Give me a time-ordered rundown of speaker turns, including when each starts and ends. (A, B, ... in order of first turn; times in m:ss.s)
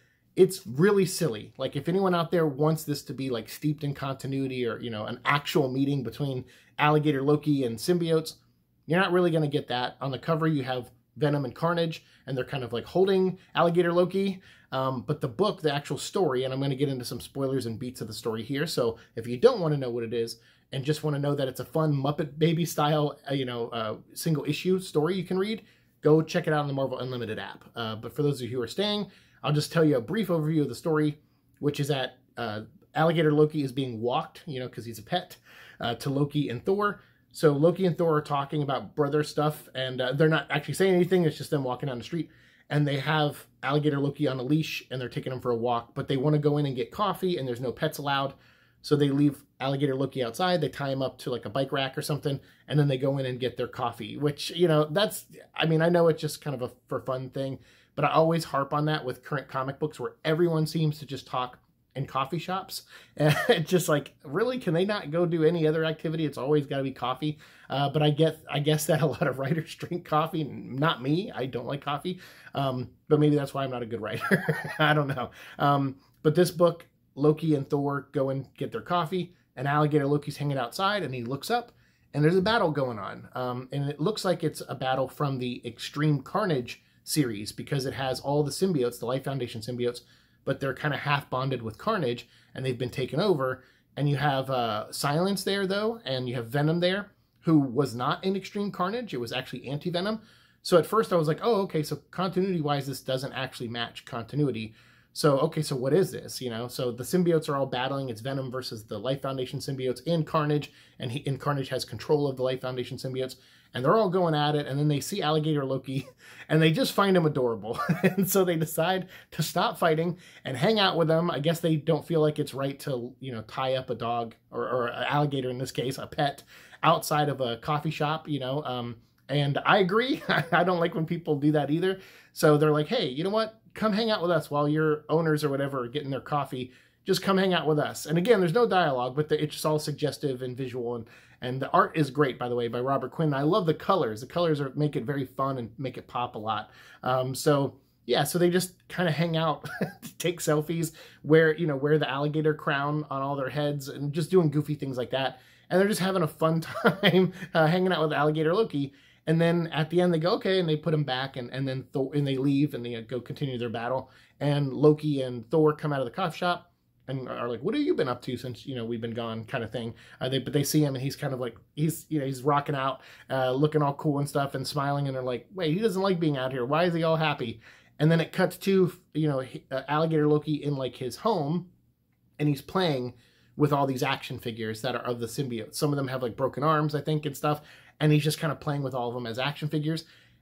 0:00.4-3:01.7 A
3:02.4-3:10.0 A